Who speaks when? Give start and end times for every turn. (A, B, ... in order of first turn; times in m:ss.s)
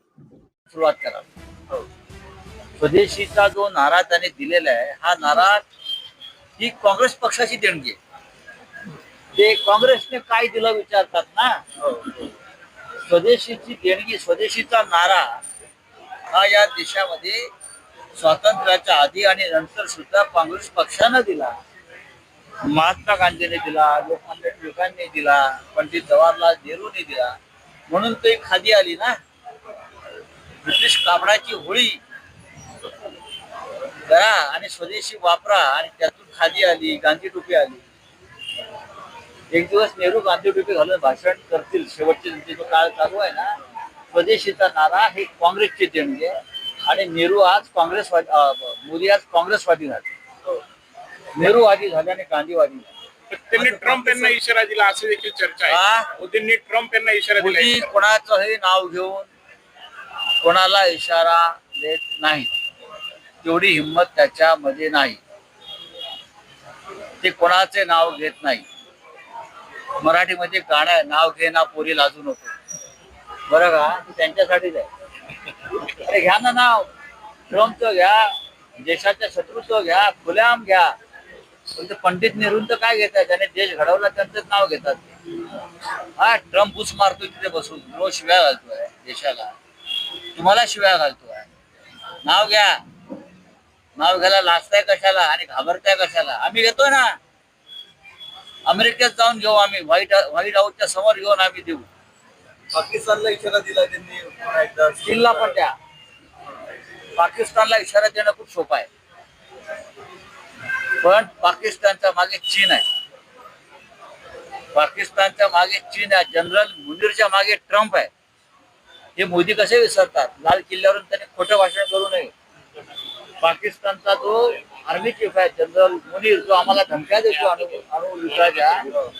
0:00.7-0:01.2 A
0:02.8-0:05.6 A
0:06.6-0:08.0 A
0:09.3-0:11.6 A
0:11.8-0:12.3 B
0:13.0-0:15.4 A
0:16.3-0:17.5 A
0:18.2-0:21.5 A
0:22.6-0:27.3 A
0:27.9-0:29.2 A
0:30.6-0:32.0 A
0:34.1-0:37.8 A
0:39.5-0:43.6 A
0:44.1-0:50.1 A
0:51.3-0:52.9 A
0:53.3-0:57.8 C
0:53.6-0:54.4 A
0:55.6-0:56.1 A
0:57.4-0:59.3 A
1:00.4-1:02.5 A
1:03.4-1:05.2 A
1:07.2-1:08.6 A
1:10.0-1:12.5 A
1:13.5-1:14.9 A
1:15.8-1:16.9 A
1:17.5-1:20.9 A
1:21.7-1:25.1 A
1:26.2-1:29.5 A
1:30.3-1:31.5 A
1:32.2-1:32.8 A
1:34.0-1:37.2 A
1:38.7-1:41.9 A
1:42.7-1:45.4 B
1:45.0-1:45.7 A
1:47.2-1:48.9 A
1:51.0-1:52.8 A
1:54.7-1:58.1 A
1:59.2-2:02.3 A
2:03.4-2:08.9 A